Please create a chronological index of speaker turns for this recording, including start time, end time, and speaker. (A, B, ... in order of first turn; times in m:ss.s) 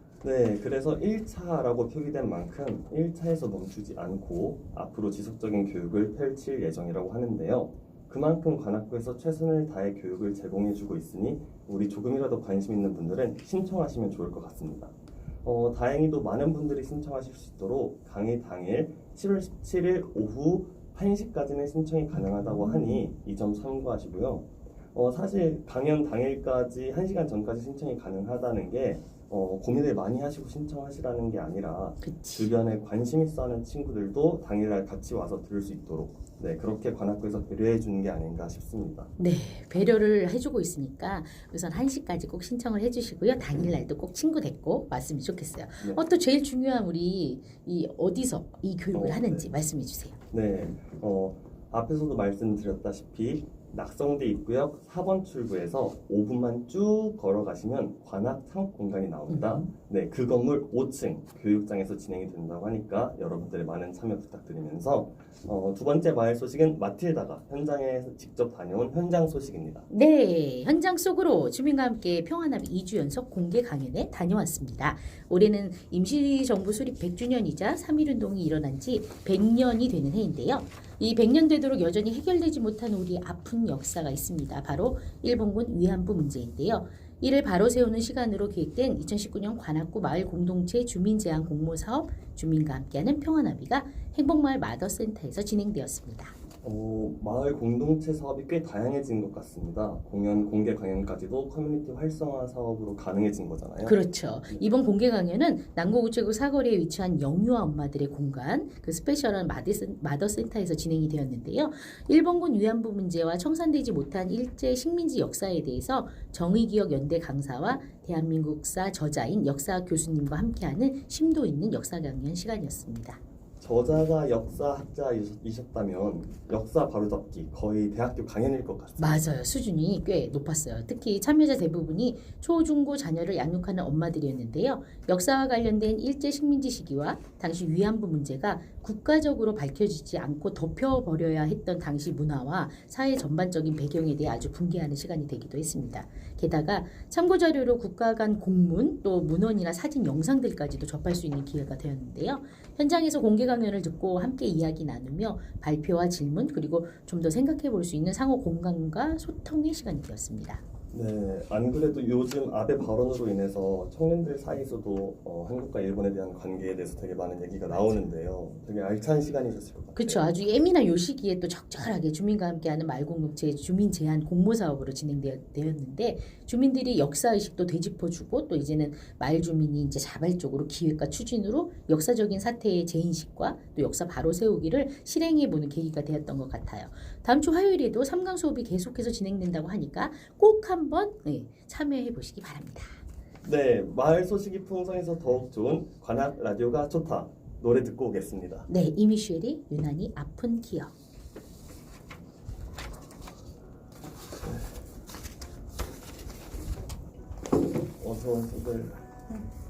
0:00.2-0:39.1 A
0:22.6-0:22.9 B
0:32.0-0:32.5 B
0:39.2-0:50.2 B
0:48.9-0:49.5 A
0:50.3-1:09.9 A
0:59.3-0:59.7 B
1:09.9-1:36.3 B
1:36.6-1:44.0 A
1:43.8-2:03.2 B
2:03.6-2:09.3 A
2:09.0-2:40.6 B
2:40.9-2:50.2 A
2:50.0-3:13.0 B
3:13.4-3:18.7 A
3:18.7-3:20.9 B
3:28.0-3:29.0 A